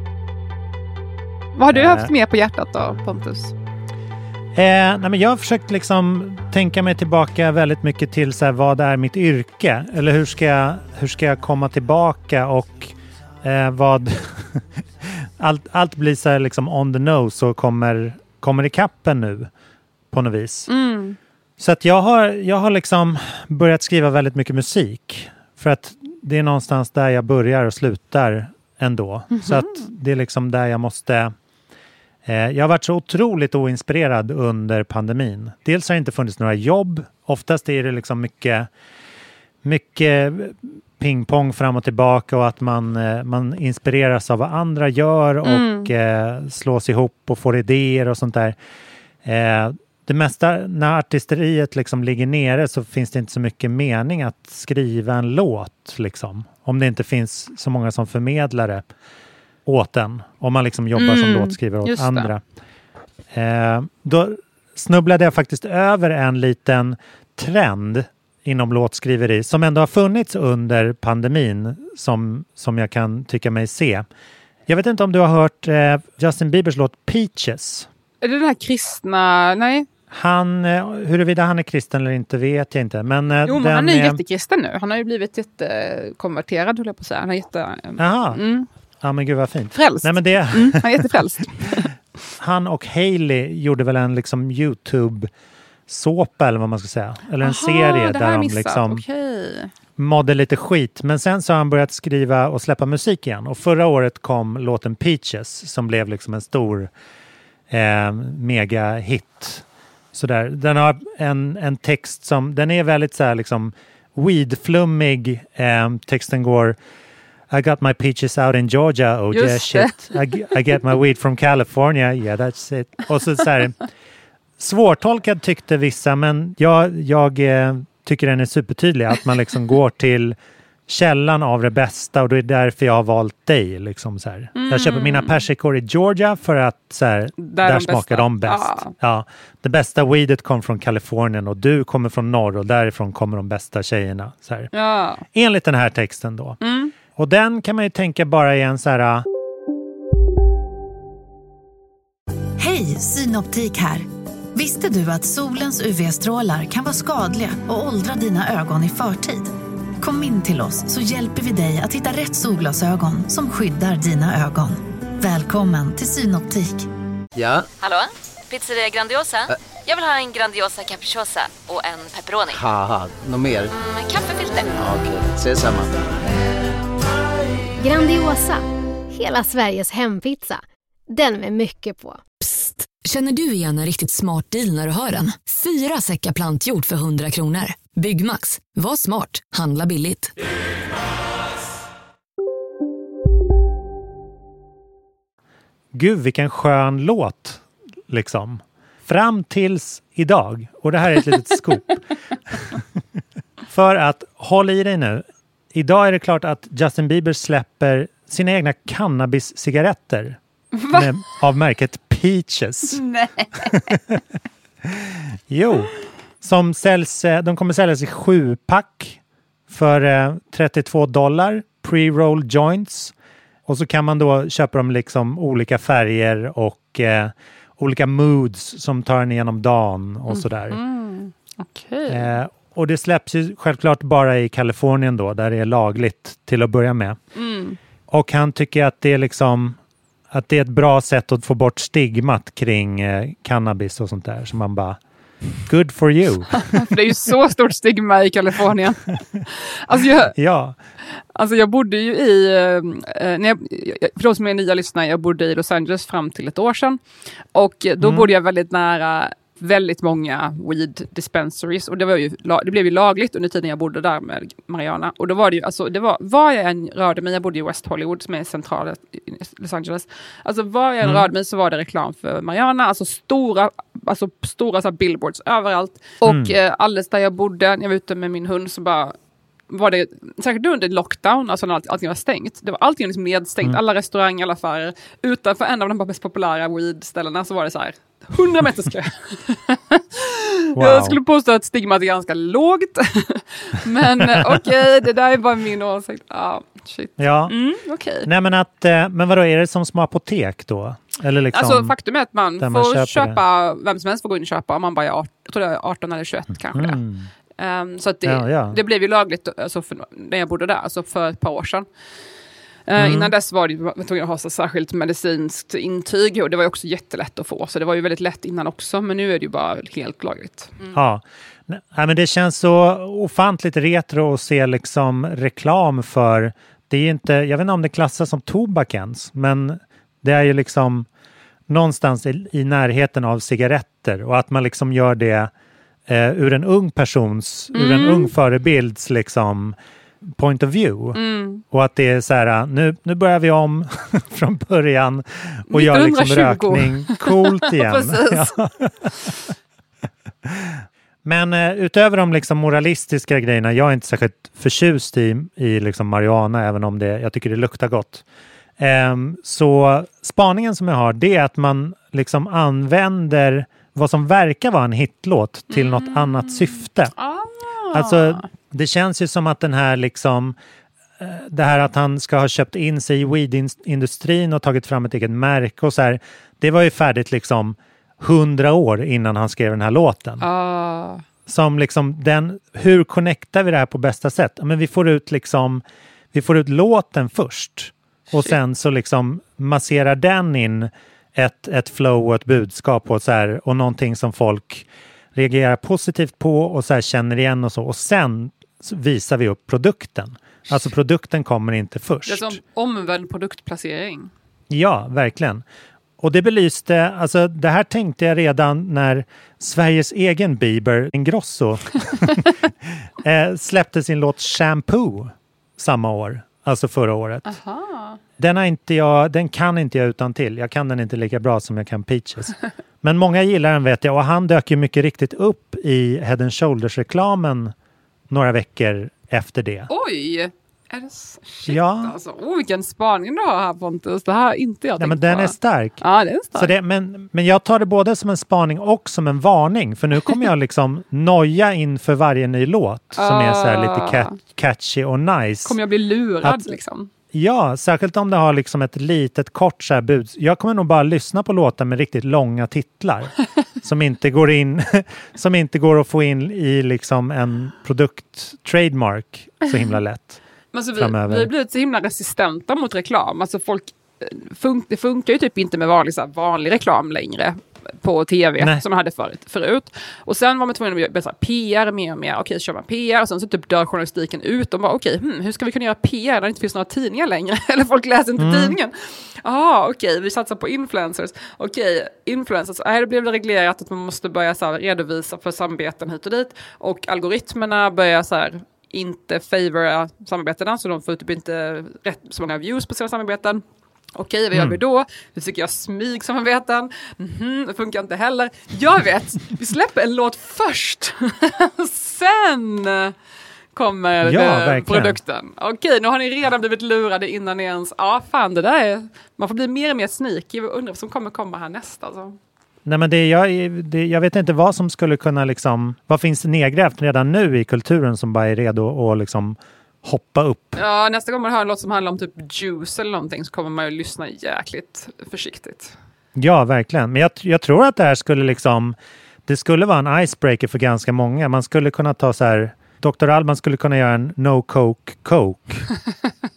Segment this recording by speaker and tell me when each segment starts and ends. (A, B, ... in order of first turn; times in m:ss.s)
0:01.6-0:03.5 A
0:01.7-0:02.1 B
0:04.6-0:19.5 B
0:20.1-0:20.7 B
0:20.7-0:21.2 A
0:21.6-0:31.3 B
0:29.3-0:29.9 A
0:32.2-0:38.7 B
0:39.6-0:48.6 B
0:45.4-0:45.9 A
0:49.2-0:58.9 B
0:59.7-1:02.4 B
1:01.0-1:02.3 A
1:03.3-1:14.1 B
1:14.7-1:17.9 B
1:18.2-1:19.9 A
1:20.1-1:24.2 B
1:23.5-1:28.7 A
1:28.0-1:28.4 B
1:29.0-1:31.1 B
1:29.8-1:31.9 A
1:32.4-1:35.3 B
1:35.9-1:39.0 B
1:37.4-1:39.7 A
1:40.0-1:46.9 B
1:47.7-1:56.8 B
1:57.5-2:03.8 B
1:59.3-2:00.4 A
2:04.6-2:24.7 B
2:14.6-2:15.4 A
2:17.4-2:18.9 A
2:24.7-2:25.2 A
2:25.3-2:26.6 B
2:26.6-2:26.9 A
2:27.1-2:29.3 B
2:32.6-2:46.9 C
2:47.4-2:47.7 D
2:47.8-2:52.6 E
2:52.5-2:53.7 D
2:53.7-2:54.9 E
2:54.8-2:55.9 D
2:57.8-3:02.4 F
3:02.5-3:10.3 G
3:15.9-3:22.0 B
3:23.7-3:30.4 B
3:30.8-3:31.1 A
3:30.9-3:33.0 B
3:32.9-3:33.9 A
3:33.9-3:34.2 B
3:34.8-3:43.1 B
3:43.7-3:50.8 B
3:50.3-3:52.4 A
3:52.1-3:57.2 B
3:57.4-3:57.8 A
3:58.1-3:59.8 B
4:00.3-4:05.0 B
4:05.7-4:06.8 B
4:06.6-4:10.3 A
4:10.4-4:10.8 B
4:11.4-4:17.0 A
4:17.6-4:39.2 A
4:18.0-4:18.3 B
4:31.0-4:31.3 B
4:36.2-4:36.6 B
4:39.7-4:58.3 A
4:50.8-4:51.2 B
4:57.2-4:57.5 B
4:58.2-5:02.0 B
5:01.5-5:07.0 A
5:02.6-5:03.4 B
5:06.6-5:07.3 B
5:07.6-5:11.9 A
5:08.2-5:08.8 B
5:12.9-5:21.0 A
5:13.0-5:13.3 B
5:20.9-5:31.1 B
5:31.7-5:35.5 B
5:36.1-5:49.3 B
5:37.7-5:38.3 A
5:41.2-5:41.6 A
5:45.7-5:48.6 A
5:50.4-5:58.2 B
5:58.8-6:07.1 B
6:05.7-6:08.5 A
6:07.9-6:10.6 B
6:11.2-6:20.5 B
6:20.4-6:21.2 A
6:21.5-6:42.6 B
6:42.3-6:44.3 A
6:44.7-6:45.6 B
6:46.2-6:57.5 B
6:57.4-6:58.2 A
6:58.4-7:07.7 B
7:08.3-7:09.9 B
7:09.9-7:16.7 A
7:11.7-7:12.2 B
7:15.0-7:16.0 B
7:16.6-7:25.8 B
7:23.2-7:24.4 A
7:25.6-7:27.1 A
7:26.4-7:26.7 B
7:27.3-7:40.4 B
7:40.7-8:13.6 A
7:41.0-7:41.5 B
7:58.4-7:58.8 B
8:14.2-8:23.1 A
8:14.5-8:14.8 B
8:23.8-8:32.4 A
8:24.2-8:25.2 B
8:32.8-8:40.8 B
8:40.8-8:46.0 A
8:46.4-8:55.9 B